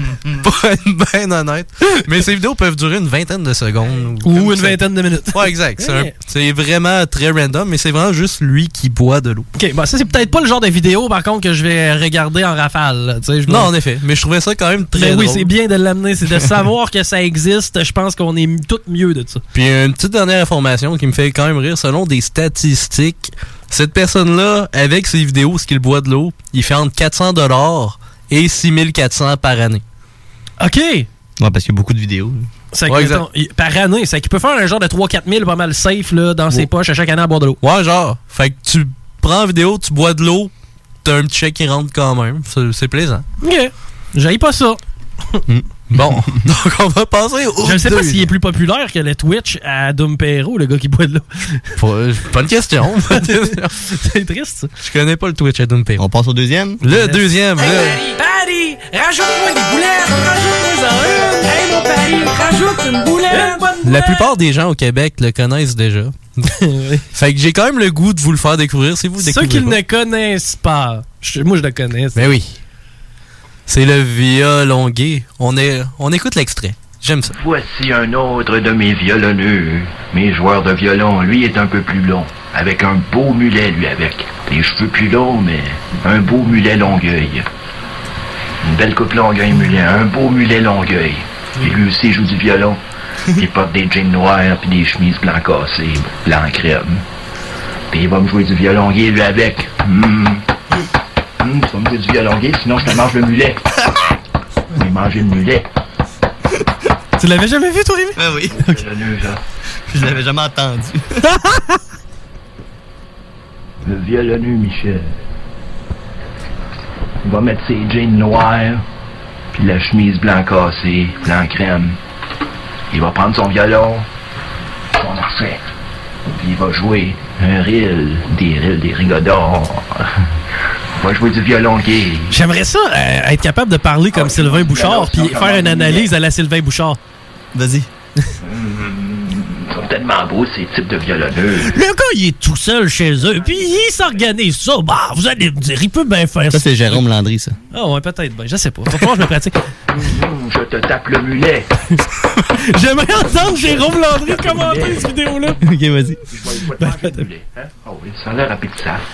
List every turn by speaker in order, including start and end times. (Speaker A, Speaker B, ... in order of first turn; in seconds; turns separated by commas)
Speaker A: 0.4-4.8, Speaker B: 4.2-6.1, Speaker A: 5.3-9.5, Speaker B: 9.6-13.7, Speaker A: 13.5-15.5, Speaker B: 14.9-19.4, Speaker A: 19.5-29.8, Speaker B: 30.6-31.1, Speaker C: 31.4-32.5, Speaker B: 32.7-37.6, Speaker A: 32.9-33.2, Speaker A: 37.6-40.5, Speaker A: 41.0-43.2, Speaker B: 43.4-44.8, Speaker A: 45.9-48.3, Speaker B: 47.6-51.7, Speaker A: 51.8-53.8, Speaker B: 53.1-54.7, Speaker A: 54.8-56.0, Speaker C: 56.0-56.8, Speaker A: 56.8-58.0, Speaker B: 56.9-57.9, Speaker D: 58.1-58.9, Speaker D: 59.6-60.1, Speaker B: 60.8-61.4, Speaker D: 61.5-63.7, Speaker B: 63.3-64.2, Speaker A: 63.8-66.2, Speaker B: 66.5-67.0, Speaker A: 67.1-69.8, Speaker B: 69.2-72.3, Speaker A: 72.2-72.6, Speaker A: 73.7-77.3, Speaker E: 77.3-87.5, Speaker E: 88.6-92.8, Speaker E: 93.4-97.0, Speaker E: 97.9-100.4, Speaker E: 101.4-103.6, Speaker E: 104.7-105.7, Speaker B: 107.2-108.2, Speaker C: 108.2-108.7, Speaker E: 108.5-109.4, Speaker C: 109.9-111.1, Speaker E: 113.8-115.2, Speaker E: 117.2-118.8, Speaker E: 119.5-122.0, Speaker E: 122.9-124.1, Speaker E: 125.0-125.6, Speaker E: 126.3-130.1, Speaker E: 131.0-132.3, Speaker B: 132.3-137.0, Speaker E: 134.1-136.1, Speaker C: 137.5-137.9, Speaker E: 138.4-141.8, Speaker B: 141.7-147.0, Speaker C: 146.5-147.6, Speaker B: 147.7-149.6, Speaker E: 149.9-151.7, Speaker B: 152.6-155.6, Speaker E: 154.2-155.2, Speaker C: 155.6-156.2, Speaker E: 156.3-159.1, Speaker B: 156.8-157.2